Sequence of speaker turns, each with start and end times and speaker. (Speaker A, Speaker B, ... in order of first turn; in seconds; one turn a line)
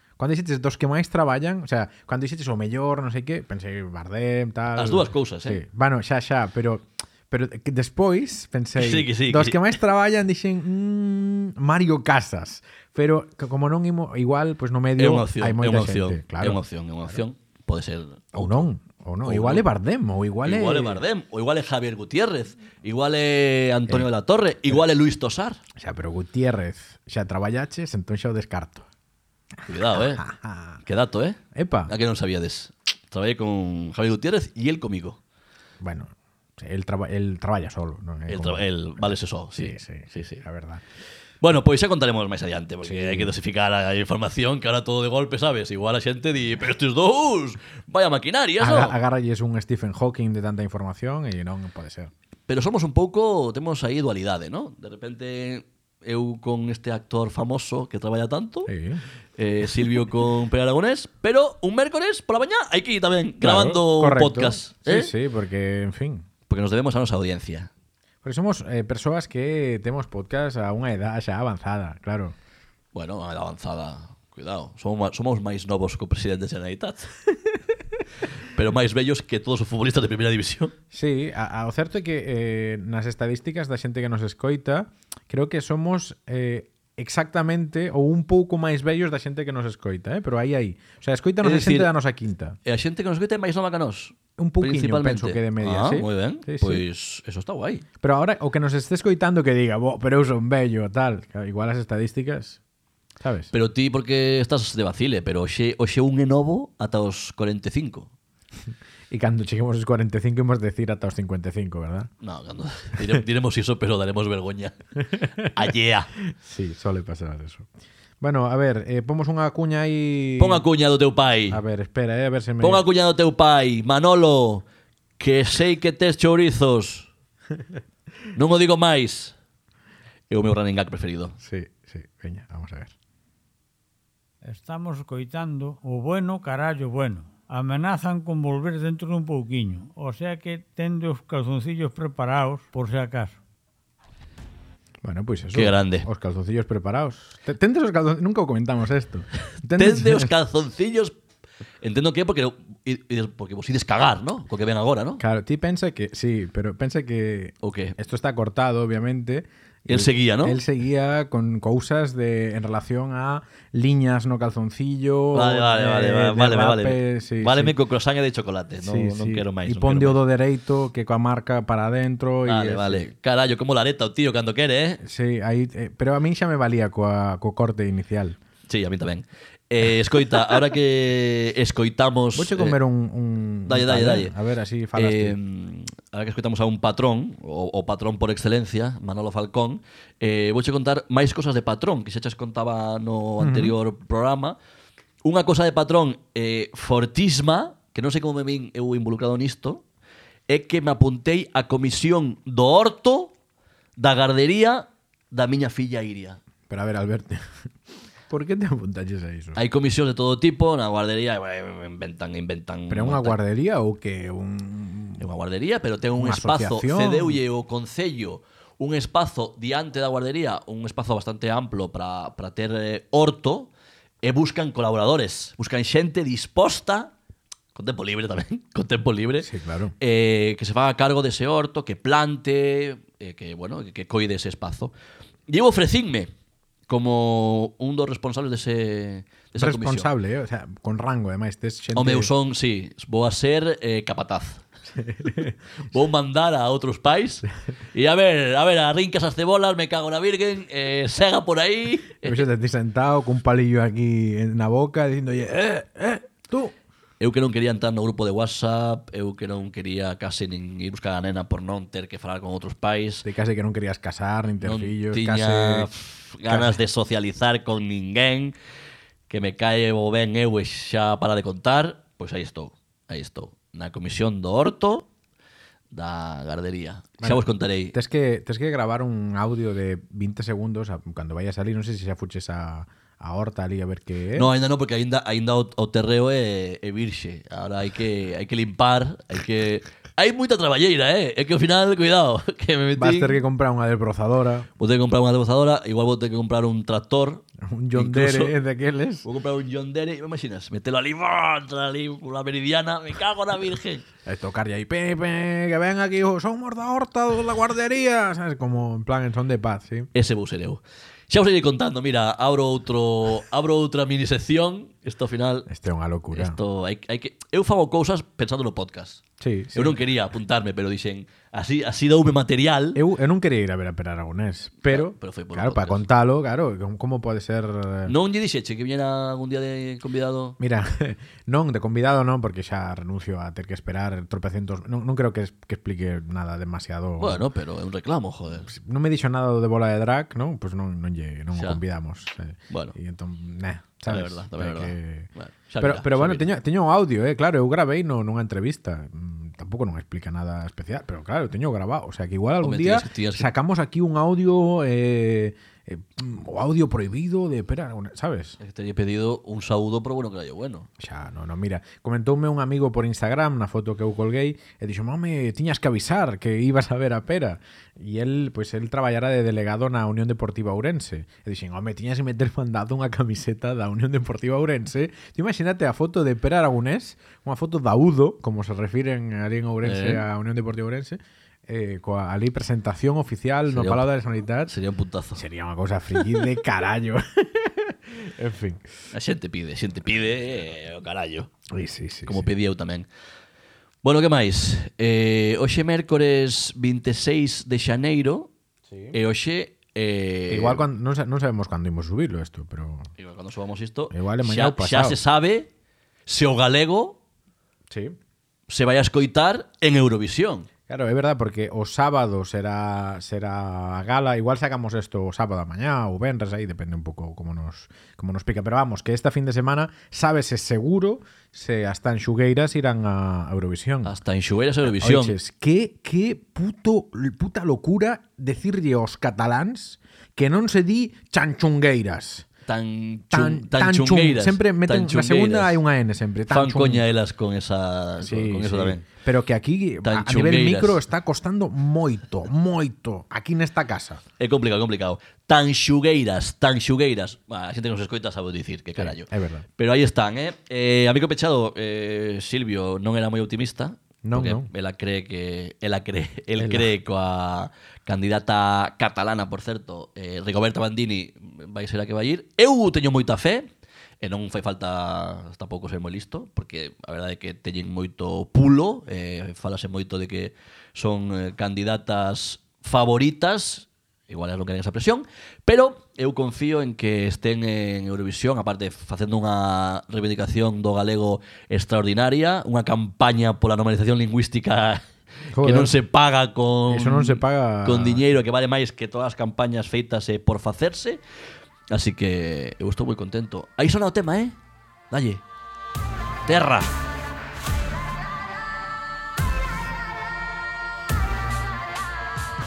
Speaker A: 0.2-16.6
Speaker B: 4.8-5.6
Speaker B: 8.8-9.6
Speaker B: 15.0-18.6
Speaker A: 18.3-21.0
Speaker B: 19.2-19.6
Speaker B: 20.4-25.6
Speaker A: 25.8-28.9
Speaker B: 29.7-30.2
Speaker A: 29.7-30.8
Speaker B: 30.8-35.2
Speaker A: 31.5-31.9
Speaker A: 35.8-38.6
Speaker B: 38.3-40.4
Speaker A: 39.5-40.8
Speaker B: 41.4-49.0
Speaker A: 42.8-43.3
Speaker A: 48.6-52.1
Speaker B: 52.5-58.7
Speaker A: 58.6-59.0
Speaker B: 59.4-65.1
Speaker A: 63.4-66.2
Speaker B: 66.5-67.7
Speaker A: 68.2-72.3
Speaker B: 72.9-77.1
Speaker B: 78.5-80.7
Speaker A: 80.9-92.6
Speaker B: 91.4-91.9
Speaker B: 92.6-97.8
Speaker A: 94.4-96.8
Speaker A: 98.0-102.6
Speaker A: 103.2-103.5
Speaker B: 103.5-108.1
Speaker A: 109.1-112.1
Speaker B: 112.2-114.8
Speaker A: 115.2-115.5
Speaker B: 115.4-116.1
Speaker A: 116.3-117.7
Speaker A: 118.2-120.6
Speaker B: 120.4-121.6
Speaker A: 121.5-122.8
Speaker B: 122.6-124.6
Speaker B: 125.2-127.1
Speaker B: 128.3-129.3
Speaker B: 130.3-131.3
Speaker A: 131.4-132.9
Speaker C: 134.4-143.4
Speaker A: 145.0-150.3
Speaker B: 145.5-146.1
Speaker B: 149.7-151.1
Speaker B: 151.8-155.2
Speaker A: 155.2-167.7
Speaker B: 157.6-157.9
Speaker B: 159.9-160.6
Speaker B: 165.3-170.2
Speaker A: 168.8-173.1
Speaker B: 172.4-175.0
Speaker A: 175.0-178.4
Speaker B: 178.7-182.8
Speaker A: 182.3-185.3
Speaker B: 183.7-184.3
Speaker B: 184.9-194.6
Speaker A: 193.4-193.7
Speaker B: 195.2-199.8
Speaker B: 200.5-203.3
Speaker B: 204.0-206.4
Speaker A: 206.7-207.4
Speaker A: 208.3-209.6
Speaker B: 209.6-213.4
Speaker A: 212.9-215.2
Speaker B: 215.2-223.7
Speaker A: 216.2-217.4
Speaker B: 224.2-227.1
Speaker B: 227.7-229.5
Speaker A: 229.4-229.9
Speaker B: 230.0-234.9
Speaker B: 235.5-236.3
Speaker B: 236.9-240.1
Speaker A: 239.6-242.3
Speaker B: 241.9-244.6
Speaker A: 244.9-245.6
Speaker B: 245.9-252.4
Speaker A: 252.2-256.7
Speaker B: 257.2-263.2
Speaker A: 263.2-265.9
Speaker B: 264.6-268.5
Speaker A: 266.5-266.8
Speaker B: 269.3-275.1
Speaker B: 275.9-277.9
Speaker A: 277.2-284.5
Speaker B: 284.3-293.4
Speaker A: 292.9-294.7
Speaker B: 294.8-297.4
Speaker A: 297.6-299.2
Speaker B: 297.9-298.5
Speaker B: 299.2-304.0
Speaker A: 304.2-310.1
Speaker B: 310.1-315.7
Speaker A: 315.7-316.6
Speaker B: 316.3-319.2
Speaker A: 319.4-320.0
Speaker B: 319.7-323.0
Speaker A: 322.9-328.1
Speaker B: 324.8-326.0
Speaker B: 328.1-330.6
Speaker A: 330.6-337.4
Speaker B: 337.2-338.7
Speaker A: 338.6-345.3
Speaker B: 341.5-341.8
Speaker B: 342.7-342.9
Speaker B: 344.1-346.5
Speaker A: 345.8-358.6
Speaker B: 352.6-353.5
Speaker B: 358.6-360.9
Speaker A: 361.0-384.7
Speaker B: 379.8-380.2
Speaker B: 383.7-384.0
Speaker B: 384.7-385.4
Speaker A: 385.3-388.8
Speaker B: 389.1-391.5
Speaker A: 391.7-392.5
Speaker B: 392.2-393.1
Speaker B: 394.0-398.5
Speaker A: 398.9-399.2
Speaker B: 399.1-400.8
Speaker A: 400.5-403.1
Speaker B: 403.2-405.7
Speaker A: 404.1-405.2
Speaker B: 406.2-407.2
Speaker A: 407.9-408.1
Speaker B: 408.7-410.7
Speaker A: 410.9-424.1
Speaker B: 424.0-425.4
Speaker A: 424.9-432.5
Speaker B: 432.6-435.8
Speaker A: 433.3-437.1
Speaker B: 436.5-439.0
Speaker A: 438.2-444.2
Speaker B: 440.0-441.0
Speaker B: 444.4-463.7
Speaker A: 449.0-449.6
Speaker A: 454.2-454.7
Speaker A: 456.6-456.9
Speaker B: 464.2-485.0
Speaker A: 485.5-485.9
Speaker B: 485.6-491.2
Speaker A: 486.9-488.2
Speaker B: 491.9-494.6
Speaker B: 495.1-495.4
Speaker B: 496.4-496.9